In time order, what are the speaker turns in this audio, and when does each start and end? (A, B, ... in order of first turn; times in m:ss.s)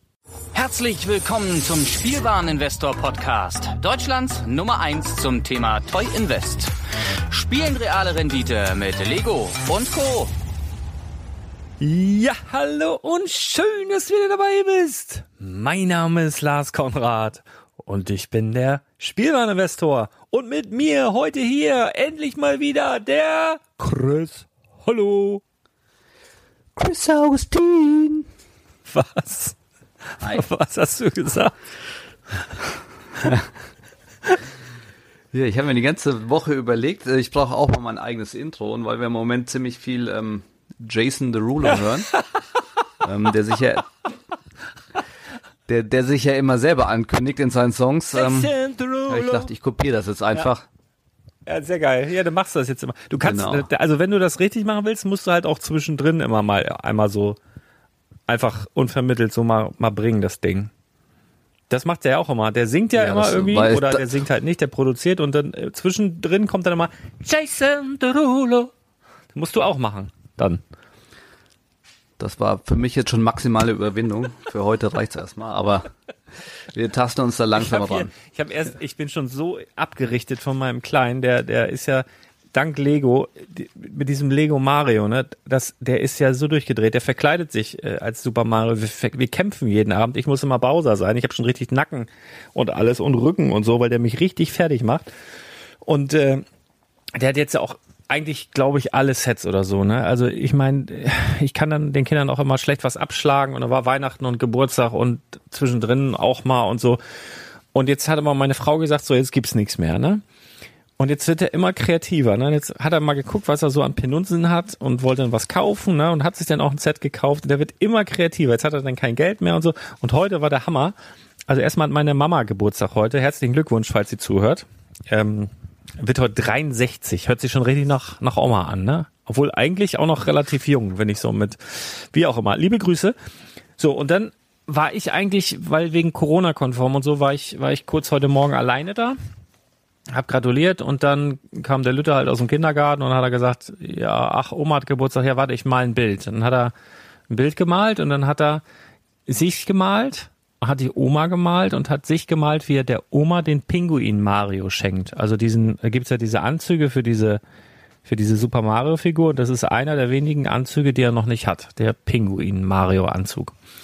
0:00.6-0:06.7 A
0:07.3-0:10.3 A
0:11.8-0:25.4 B
0:26.8-0:28.3 B
0:28.9-0:29.6 B
0:30.2-0:31.5 B
0:35.3-0:42.1 C
0:43.0-0:43.9 C
0:45.7-0:48.5 C
0:48.1-0:49.5 B
0:49.1-0:50.6 C
0:51.5-0:57.4 B
0:53.2-0:53.7 C
0:58.3-1:00.7 B
1:01.7-1:08.7 B
1:03.0-1:04.1 C
1:09.3-1:10.6 B
1:12.2-1:15.9 C
1:16.7-1:18.1 C
1:17.6-1:35.1 B
1:35.8-1:36.4 B
1:37.2-1:47.0 B
1:47.7-1:50.2 B
1:51.0-2:01.0 B
2:01.5-2:13.2 B
2:13.8-2:19.2 B
2:20.1-2:26.7 B
2:27.3-2:28.6 B
2:29.3-2:37.4 B
2:38.0-2:43.5 B